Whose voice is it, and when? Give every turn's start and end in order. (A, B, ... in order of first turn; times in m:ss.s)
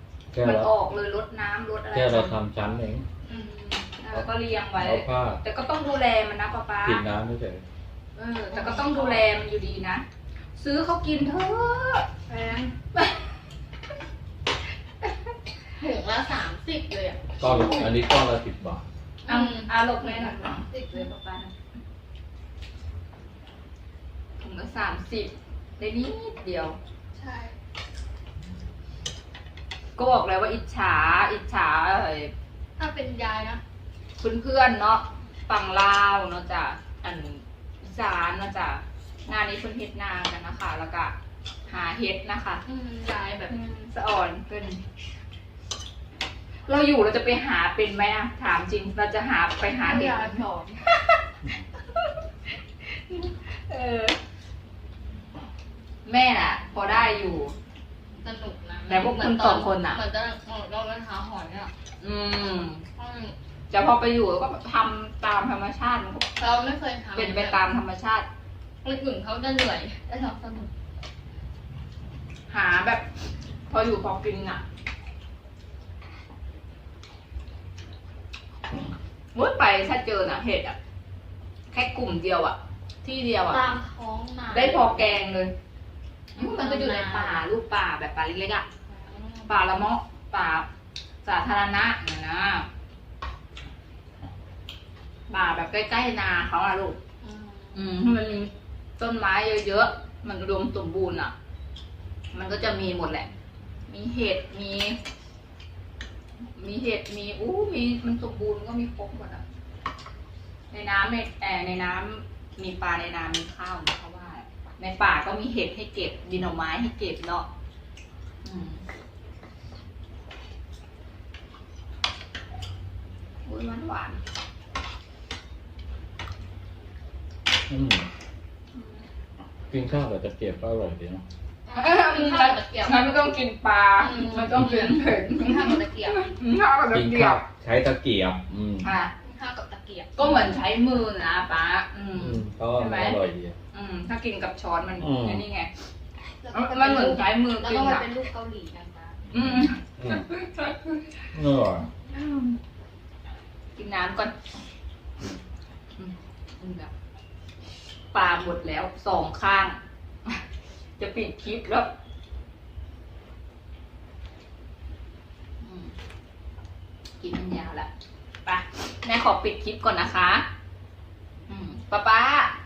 0:00.3-0:00.7 A
0:00.4-0:02.4 B
0:01.9-0:03.1 A
0:03.3-0:03.7 C
0:03.3-0:07.0 B
0:04.1-0:05.4 A
0:06.8-0:07.6 A
0:08.2-0:12.1 B
0:08.5-0:09.2 C
0:12.3-0:12.7 C
0:12.9-0:13.3 B
0:15.0-0:15.3 B
0:15.8-0:18.0 C
0:17.4-0:18.8 A
0:19.2-0:21.5 C
0:19.3-0:21.1 B
0:24.4-0:26.8 B
0:27.1-0:27.5 C
0:30.0-0:32.3 B
0:32.8-0:33.6 C
0:34.2-0:41.1 B
0:41.7-0:42.6 B
0:42.7-0:43.5 C
0:43.5-0:44.8 B
0:46.6-0:52.1 B
0:49.7-0:50.8 C
0:52.8-0:54.2 B
0:56.0-0:57.5 B
0:58.2-1:01.7 C
0:58.9-1:00.0 B
1:02.0-1:02.8 B
1:03.0-1:03.3 C
1:03.7-1:06.3 B
1:06.4-1:07.6 C
1:07.1-1:08.3 B
1:08.8-1:10.7 C
1:12.5-1:13.1 B
1:13.7-1:14.6 B
1:19.3-1:20.8 B
1:21.7-1:23.7 B
1:23.5-1:25.3 C
1:24.5-1:25.5 B
1:26.3-1:28.7 B
1:26.4-1:27.5 C
1:28.9-1:29.5 C
1:29.5-1:30.7 B
1:31.2-1:32.7 B
1:35.3-1:37.0 B
1:37.2-1:38.0 C
1:37.7-1:41.3 B
1:42.3-1:43.3 B
1:43.9-1:45.0 B
1:46.6-1:49.4 B
1:50.7-1:57.5 B
1:58.4-1:58.8 B
2:03.4-2:04.2 B
2:07.7-2:08.1 A
2:08.7-2:09.0 B
2:09.7-2:11.2 A
2:11.7-2:13.2 C
2:11.7-2:17.4 B
2:14.0-2:16.3 C
2:16.9-2:18.9 A
2:18.8-2:19.1 B
2:19.2-2:20.2 C
2:20.2-2:23.2 B
2:22.2-2:23.6 A
2:23.7-2:25.7 B
2:25.0-2:25.4 A
2:26.4-2:29.3 C
2:26.5-2:28.1 B
2:29.3-2:31.2 B
2:29.3-2:30.2 A
2:31.3-2:31.9 A
2:32.1-2:32.6 B
2:33.8-2:34.4 B
2:36.0-2:36.9 B
2:38.1-2:40.4 B
2:41.0-2:41.9 B
2:45.6-2:45.9 B
2:47.2-2:47.9 B
2:48.4-2:50.4 B
2:51.5-2:52.6 B